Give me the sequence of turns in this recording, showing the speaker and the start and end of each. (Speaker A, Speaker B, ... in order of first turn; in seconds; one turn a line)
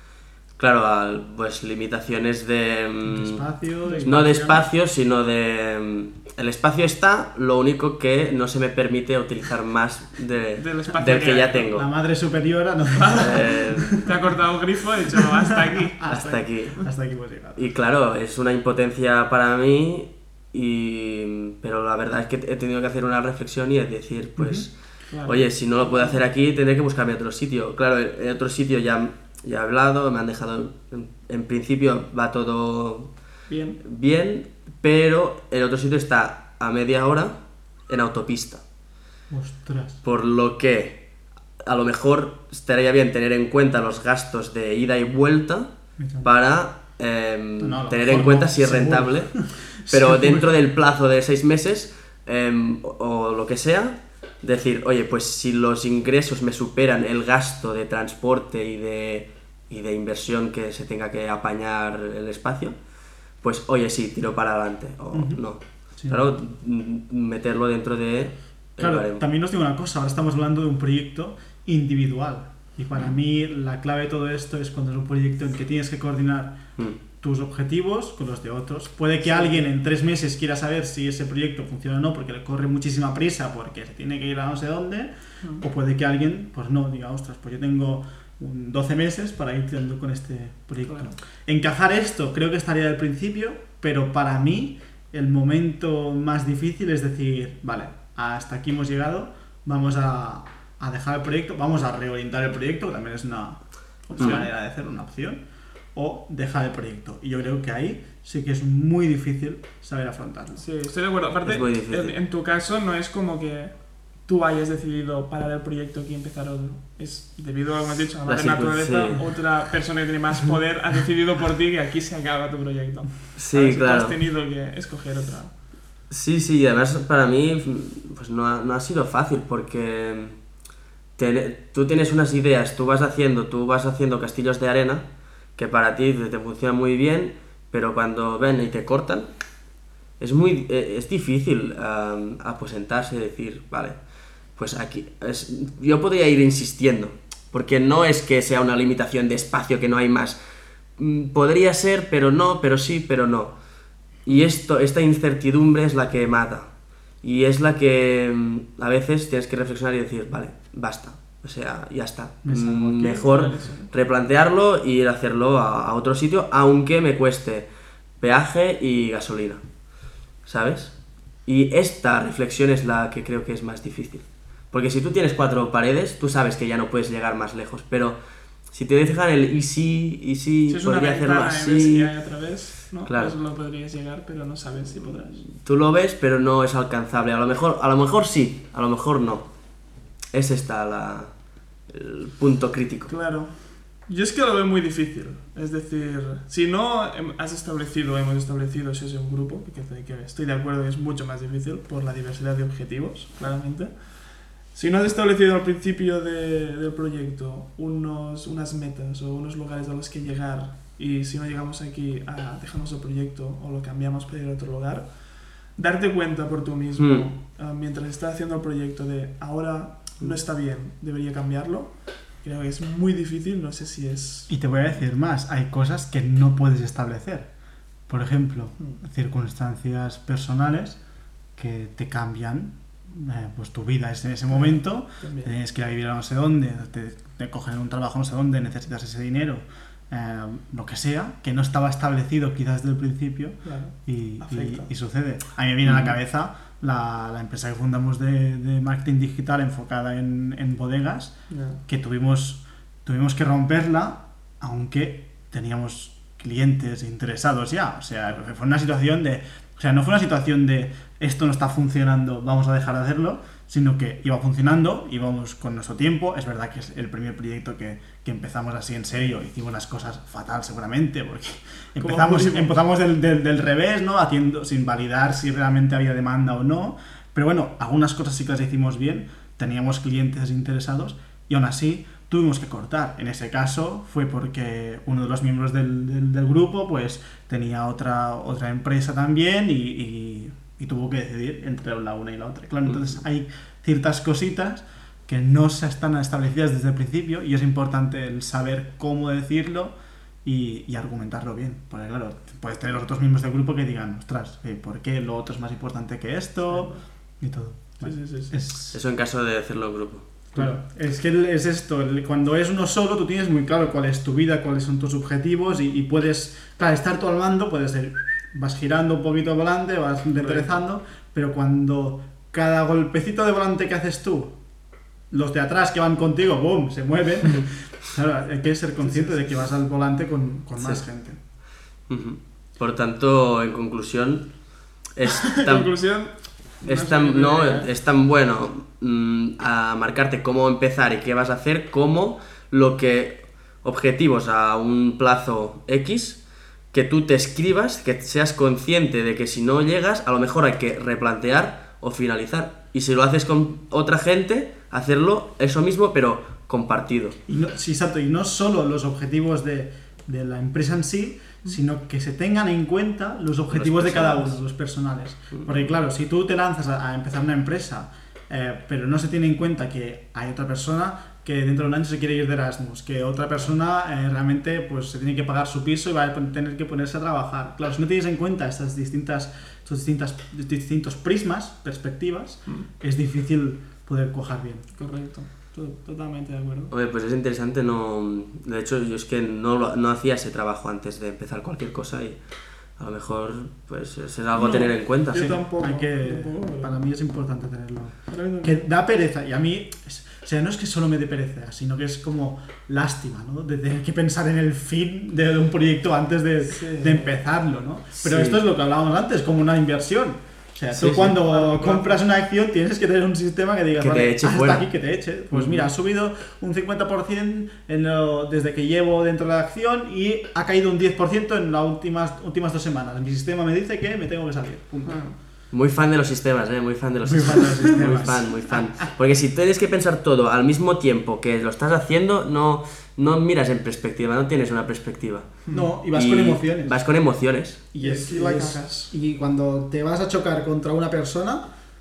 Speaker A: 0.6-11.9
Speaker B: 3.0-4.2
Speaker C: 3.8-4.7
Speaker C: 10.6-11.7
Speaker B: 11.7-14.1
Speaker C: 13.0-16.9
Speaker A: 13.2-14.0
Speaker B: 15.9-17.6
Speaker A: 16.1-16.9
Speaker A: 17.5-33.2
Speaker B: 24.4-24.7
Speaker C: 25.1-26.2
Speaker C: 33.5-33.8
Speaker A: 33.8-37.4
Speaker A: 37.9-38.6
Speaker B: 39.3-40.0
Speaker A: 40.0-41.0
Speaker A: 41.6-45.7
Speaker B: 46.0-46.3
Speaker A: 46.2-62.8
Speaker B: 47.6-50.5
Speaker A: 63.4-69.2
Speaker B: 65.1-65.4
Speaker B: 66.0-66.3
Speaker B: 68.8-76.6
Speaker B: 77.2-110.6
Speaker C: 79.2-79.7
Speaker C: 90.8-91.1
Speaker C: 104.1-104.4
Speaker A: 104.2-104.5
Speaker C: 110.5-125.5
Speaker A: 111.4-112.2
Speaker A: 118.2-119.3
Speaker A: 123.3-124.2
Speaker A: 126.1-130.4
Speaker A: 131.2-139.3
Speaker A: 140.2-144.0
Speaker A: 144.6-150.4
Speaker A: 151.0-153.5
Speaker A: 154.2-156.7
Speaker A: 157.2-167.7
Speaker B: 162.4-163.3
Speaker C: 162.9-163.9
Speaker A: 168.2-169.6
Speaker A: 170.4-178.2
Speaker A: 178.7-182.2
Speaker C: 180.7-185.4
Speaker A: 183.0-183.4
Speaker A: 185.0-189.5
Speaker A: 190.3-191.3
Speaker A: 191.9-193.1
Speaker C: 193.1-224.6
Speaker A: 216.9-217.3
Speaker B: 224.5-227.5
Speaker B: 228.1-231.0
Speaker B: 231.6-309.0
Speaker C: 234.5-235.5
Speaker C: 243.6-244.9
Speaker A: 245.8-246.1
Speaker C: 251.5-251.8
Speaker C: 272.0-272.8
Speaker C: 306.6-307.0
Speaker C: 308.0-308.6
Speaker A: 308.9-310.2
Speaker B: 310.5-324.6
Speaker C: 320.4-320.8
Speaker B: 325.3-331.4
Speaker C: 329.0-329.7
Speaker A: 330.8-331.1
Speaker A: 332.1-334.6
Speaker A: 335.1-336.1
Speaker C: 335.5-337.9
Speaker A: 336.8-357.4
Speaker B: 357.5-384.8
Speaker A: 363.7-364.6
Speaker C: 384.9-386.9
Speaker A: 386.9-392.4
Speaker A: 392.9-395.5
Speaker C: 394.5-397.0
Speaker B: 395.3-425.2
Speaker C: 398.3-398.9
Speaker C: 406.6-407.4
Speaker A: 408.1-408.6
Speaker A: 410.9-411.4
Speaker C: 411.1-412.2
Speaker A: 414.0-414.9
Speaker A: 415.5-415.9
Speaker C: 425.0-425.4
Speaker A: 425.7-437.9
Speaker B: 427.2-429.0
Speaker C: 435.6-436.0
Speaker B: 435.7-437.0
Speaker B: 437.9-441.6
Speaker C: 438.0-439.1